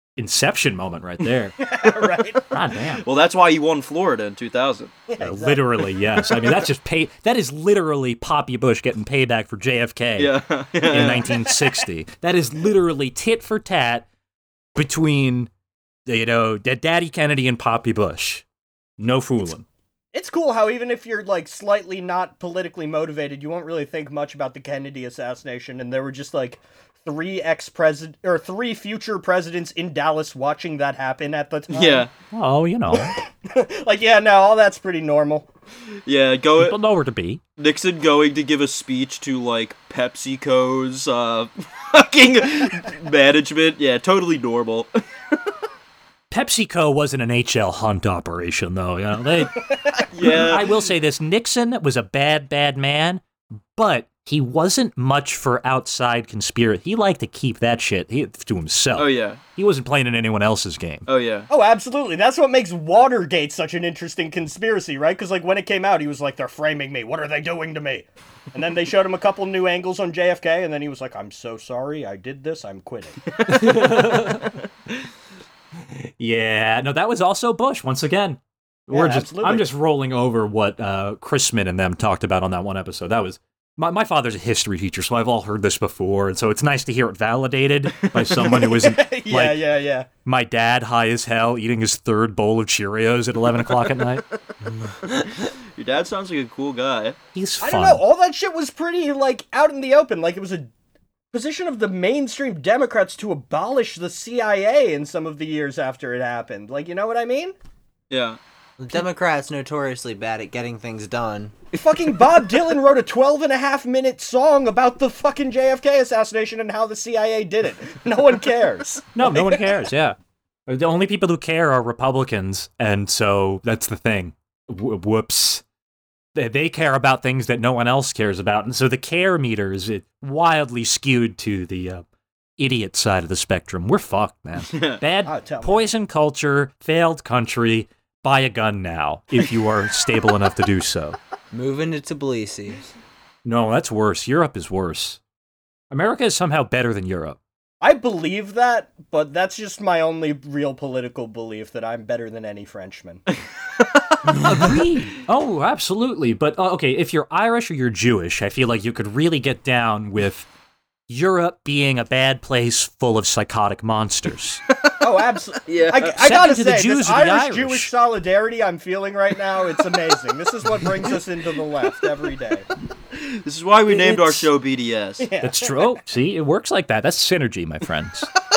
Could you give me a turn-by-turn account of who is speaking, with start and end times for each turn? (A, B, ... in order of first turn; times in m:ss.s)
0:00.2-0:01.6 A
0:01.6-0:02.4 B
0:02.5-0:03.0 A
0:02.9-0:04.9 C
0:05.1-0:05.6 B
0:05.2-0:10.3 A
0:10.2-0:11.3 C
0:10.9-0:14.1 A
0:14.8-0:15.5 A
0:16.0-0:18.4 A
0:19.0-0:19.6 A
0:20.1-0:32.1 B
0:31.7-0:32.1 C
0:32.3-0:33.2 A
0:32.9-0:35.5 B
0:36.0-0:36.8 C
0:36.6-0:37.4 A
0:37.6-0:44.9 C
0:46.3-0:53.2 A
0:50.1-0:50.7 C
0:53.8-1:01.0 A
0:59.0-0:59.4 C
1:01.1-1:01.5 C
1:01.5-1:13.2 B
1:13.3-1:14.4 C
1:13.5-1:14.5 A
1:15.9-1:29.6 A
1:18.9-1:19.6 B
1:28.5-1:30.1 B
1:30.2-1:34.2 A
1:35.8-1:37.2 C
1:37.3-1:38.0 A
1:37.6-1:40.7 B
1:41.3-1:47.5 B
1:48.1-1:48.4 C
1:48.8-1:51.5 D
1:51.7-1:59.6 B
1:59.1-2:00.2 A
2:00.7-2:05.6 A
2:06.3-2:12.0 A
2:12.6-2:21.2 A
2:14.7-2:15.0 C
2:15.2-2:15.8 B
2:21.5-2:22.9 D
2:23.4-2:25.2 A
2:25.9-2:27.4 A
2:27.8-2:33.2 B
2:34.3-2:40.5 A
2:41.1-2:44.6 A
2:45.0-2:52.7 B
2:45.6-2:46.2 C
2:46.2-2:47.9 A
2:53.1-2:55.3 C
2:53.9-2:54.5 B
2:55.2-2:55.7 B
2:55.4-2:58.3 A